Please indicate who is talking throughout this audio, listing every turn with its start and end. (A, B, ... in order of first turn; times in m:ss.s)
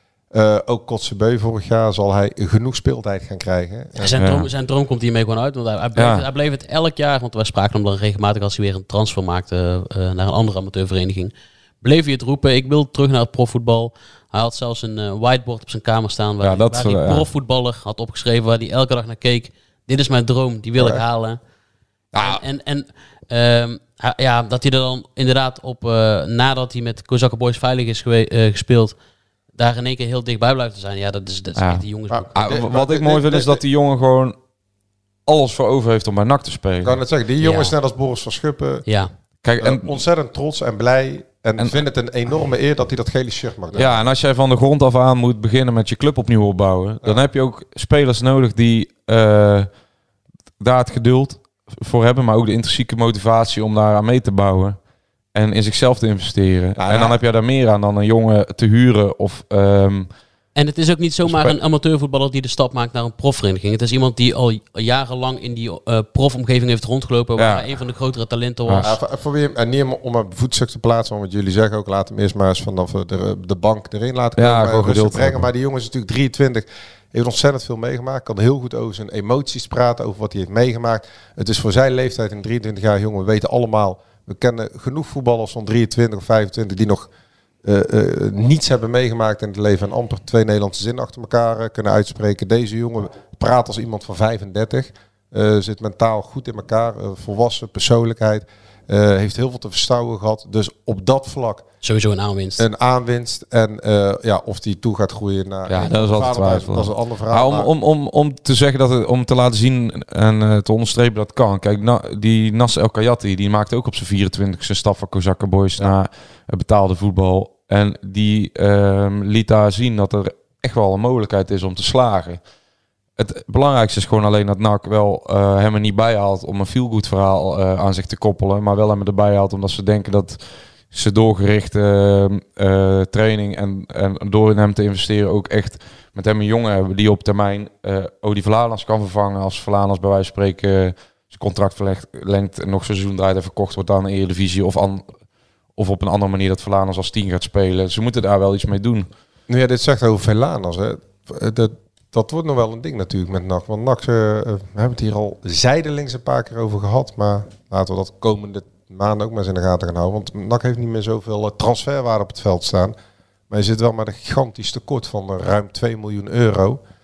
0:00.3-0:04.2 A
0:04.0-0:21.4 B
0:04.2-0:04.5 C
0:06.0-0:06.2 C
0:16.4-0:17.3 C
0:22.1-0:22.4 C
0:22.2-0:29.0 B
0:29.6-0:32.3 B
0:31.6-0:34.4 C
0:32.1-0:33.6 A
0:35.3-0:37.0 C
0:36.8-0:38.8 A
0:37.4-0:37.7 B
0:39.4-0:39.9 C
0:39.6-0:44.0 A
0:43.7-0:49.7 C
0:50.6-0:54.8 C
0:55.3-1:00.1 C
0:56.8-0:57.2 A
1:00.5-1:08.9 B
1:01.2-1:01.6 C
1:07.4-1:07.7 C
1:08.8-1:27.1 A
1:14.4-1:15.4 C
1:27.6-1:41.6 A
1:41.8-1:42.6 B
1:42.6-1:47.7 A
1:45.7-2:02.4 C
2:03.2-2:10.4 C
2:10.9-2:25.0 C
2:25.8-2:29.1 C
2:29.5-2:42.9 A
2:43.5-2:46.8 A